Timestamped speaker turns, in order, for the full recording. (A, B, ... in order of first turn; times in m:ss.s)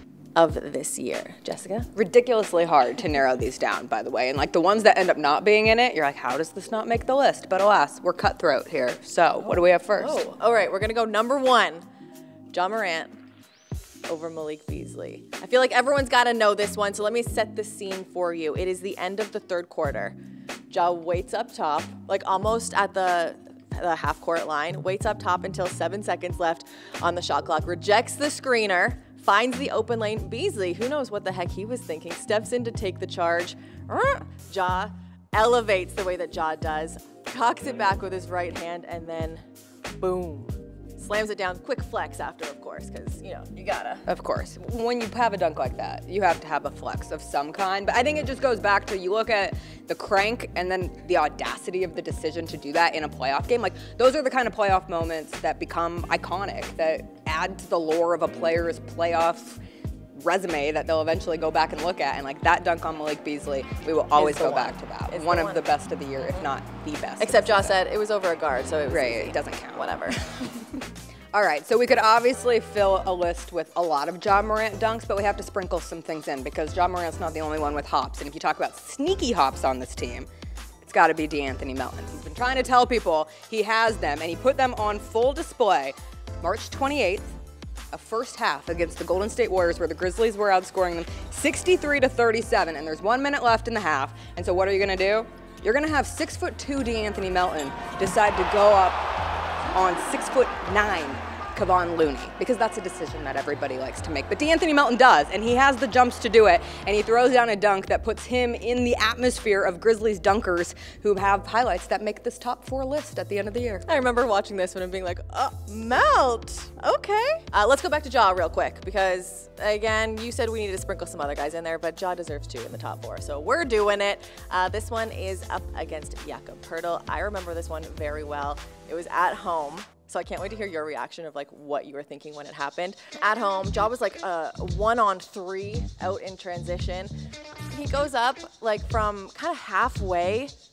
0:00.4-0:01.9 A
0:01.9-0:10.2 B
0:10.0-0:11.8 A
0:12.5-0:13.2 A
0:14.1-0:20.2 A
0:20.7-0:39.4 A
0:40.0-0:44.1 A
0:44.1-0:59.6 B
1:00.2-1:07.8 B
1:04.1-1:05.7 A
1:07.2-1:10.3 A
1:08.9-1:10.4 B
1:11.3-1:20.3 B
1:20.8-1:27.3 B
1:27.9-1:39.0 B
1:39.7-1:53.9 B
1:53.9-2:17.1 A
2:17.7-2:20.5 A